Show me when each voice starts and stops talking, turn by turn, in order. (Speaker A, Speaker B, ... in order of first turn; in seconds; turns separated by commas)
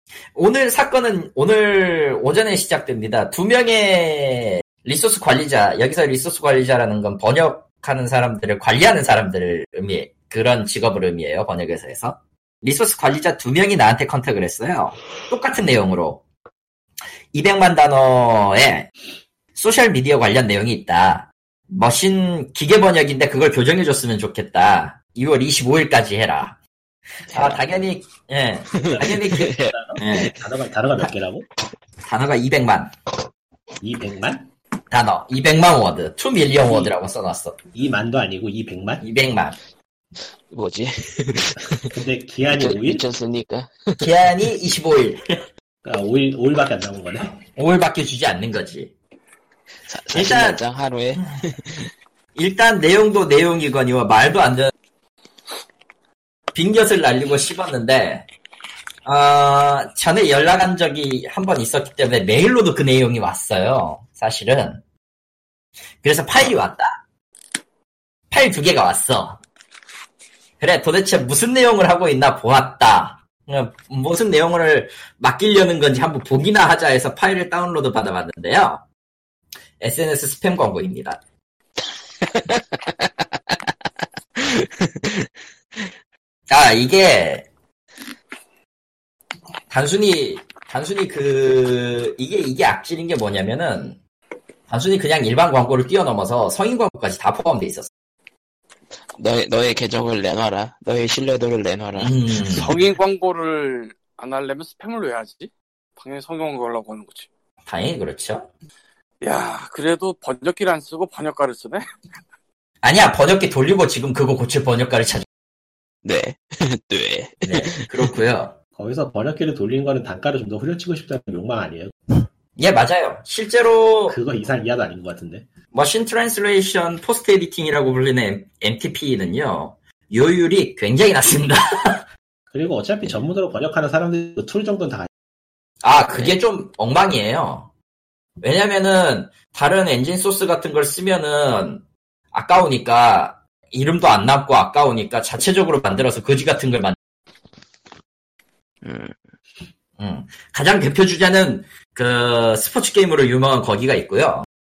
Speaker A: 0.3-16.2, Speaker A: 17.3-18.9, Speaker A: 19.6-26.6, Speaker A: 27.3-30.4, Speaker B: 27.3-27.8, Speaker B: 28.7-30.4, Speaker C: 28.9-31.5, Speaker A: 32.0-33.0, Speaker C: 33.8-34.5, Speaker A: 34.9-37.6, Speaker C: 36.6-37.0, Speaker C: 37.7-39.0, Speaker A: 39.0-39.6, Speaker B: 40.5-44.1, Speaker C: 41.9-43.0, Speaker A: 44.0-45.5, Speaker C: 45.8-47.4, Speaker A: 47.4-48.9, Speaker B: 49.8-51.9, Speaker A: 50.1-50.6, Speaker A: 52.4-54.7, Speaker A: 56.5-58.3, Speaker A: 59.0-64.8, Speaker A: 66.0-67.0, Speaker A: 68.3-69.4, Speaker A: 70.6-78.8, Speaker A: 79.8-81.2, Speaker B: 82.2-83.7, Speaker B: 84.4-85.9, Speaker A: 86.5-87.5, Speaker A: 89.7-94.0, Speaker A: 94.7-97.9, Speaker B: 99.2-102.8, Speaker A: 102.0-102.7, Speaker D: 102.5-107.3, Speaker A: 107.7-108.5, Speaker D: 109.2-111.8, Speaker A: 112.8-115.3, Speaker B: 116.0-118.2, Speaker A: 117.4-118.6, Speaker C: 118.8-122.0, Speaker A: 122.6-124.2, Speaker C: 124.1-125.5, Speaker A: 125.7-132.1, Speaker C: 132.5-135.1, Speaker A: 135.8-137.7, Speaker A: 138.4-147.0, Speaker B: 148.8-149.2, Speaker A: 150.0-154.5